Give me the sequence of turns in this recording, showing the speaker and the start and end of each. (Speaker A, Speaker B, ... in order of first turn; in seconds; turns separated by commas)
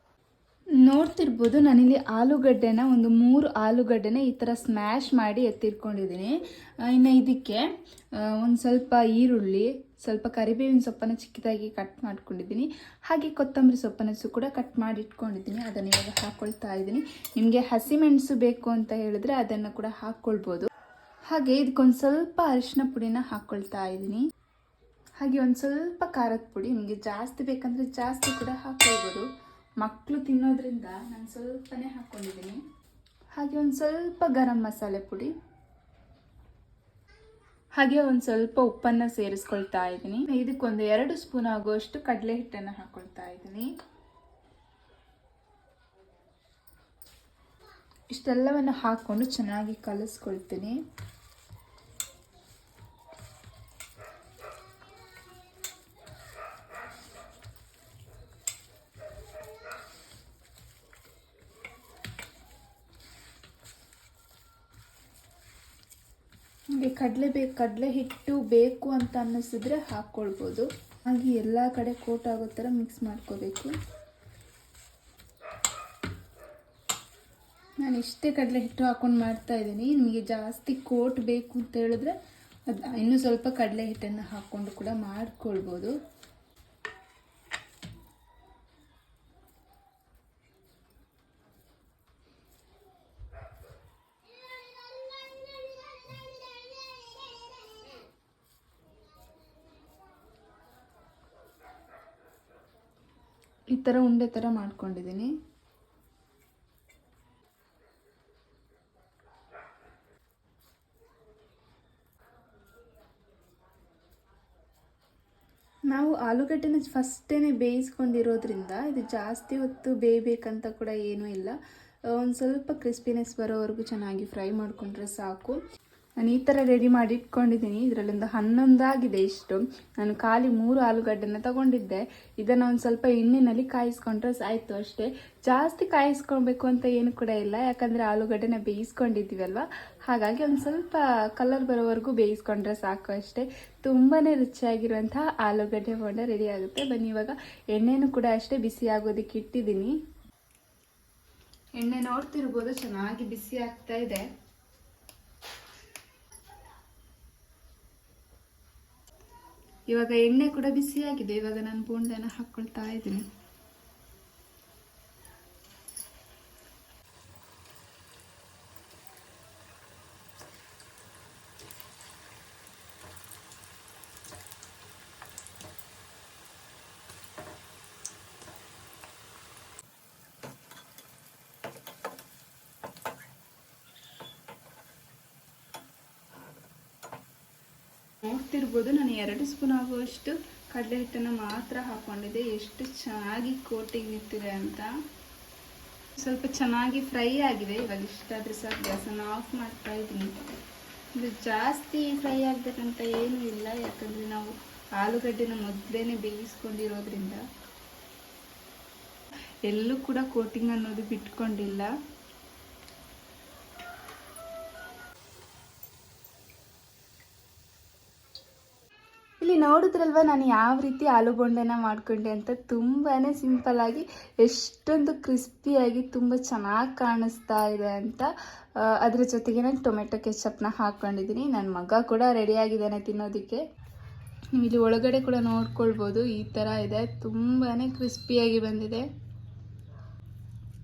Speaker A: 0.8-20.7, Speaker A: 21.3-24.2, Speaker A: 25.2-29.2, Speaker A: 29.8-32.6, Speaker A: 33.3-35.3, Speaker A: 37.8-43.7, Speaker A: 48.1-50.8, Speaker A: 66.7-73.7, Speaker A: 77.8-82.2, Speaker A: 82.7-85.9, Speaker A: 103.7-105.3, Speaker A: 115.9-121.5, Speaker A: 122.1-125.6, Speaker A: 126.2-149.9, Speaker A: 151.8-154.3, Speaker A: 159.9-163.3, Speaker A: 188.2-194.9, Speaker A: 196.2-200.3, Speaker A: 201.2-207.4, Speaker A: 209.7-211.9, Speaker A: 219.4-228.3, Speaker A: 228.8-233.6, Speaker A: 234.5-239.1